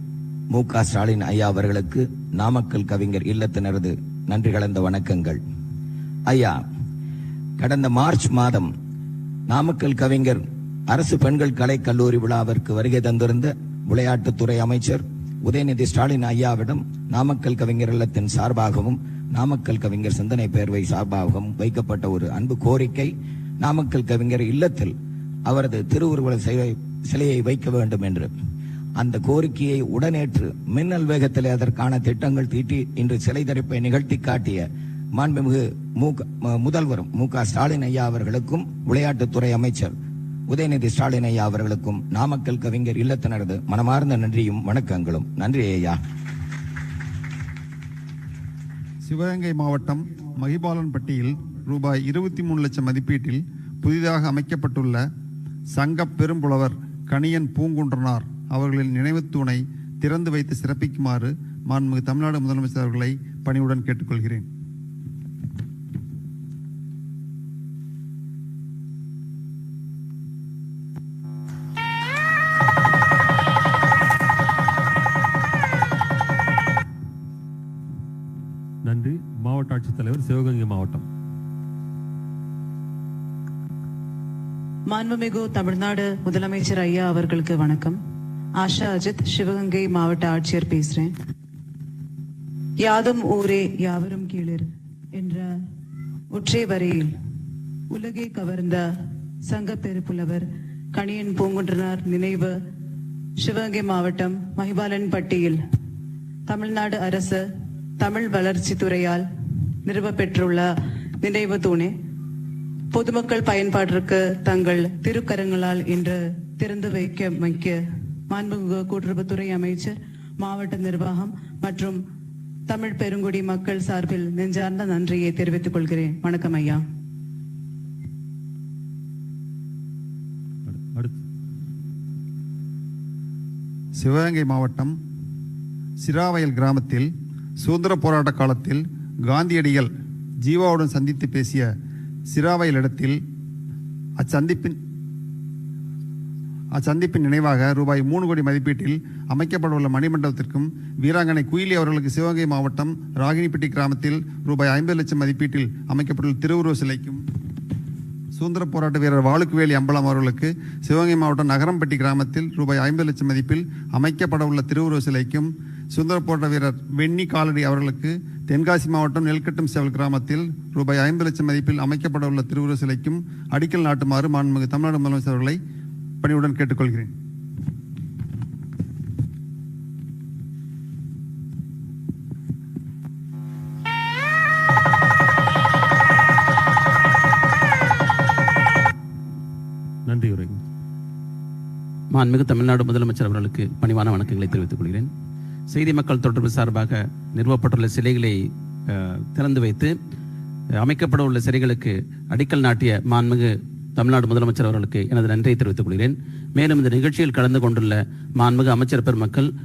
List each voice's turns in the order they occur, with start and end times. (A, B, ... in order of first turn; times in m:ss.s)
0:00.5-0:05.4 A
0:06.3-0:06.6 A
0:07.6-0:08.7 A
0:09.5-0:24.9 A
0:25.5-0:28.3 A
0:29.0-0:39.9 A
0:40.5-0:46.0 A
0:49.0-0:55.0 B
0:55.7-1:04.5 B
1:18.8-1:21.1 C
1:25.0-1:27.9 D
1:28.6-1:31.0 D
1:32.9-1:34.6 D
1:36.4-1:37.0 D
1:38.0-1:38.8 D
1:39.5-1:40.4 D
1:41.0-1:42.5 D
1:43.4-1:45.6 D
1:46.5-1:47.4 D
1:48.0-1:49.2 D
1:49.9-1:50.6 D
1:51.2-1:51.9 D
1:52.9-1:57.8 D
1:58.3-1:59.9 D
2:00.4-2:01.9 D
2:02.7-2:06.8 D
2:10.7-2:11.2 C
2:14.0-2:14.9 B
2:16.0-2:19.9 B
2:20.4-2:21.7 B
2:22.3-2:23.2 B
2:24.2-2:24.8 B
2:26.8-2:37.2 B
2:38.4-2:55.6 B
2:56.2-2:57.1 B
3:10.1-3:10.6 C
3:12.1-3:15.1 E
3:15.7-3:18.4 E
3:19.4-3:19.9 E
3:20.8-3:29.5 E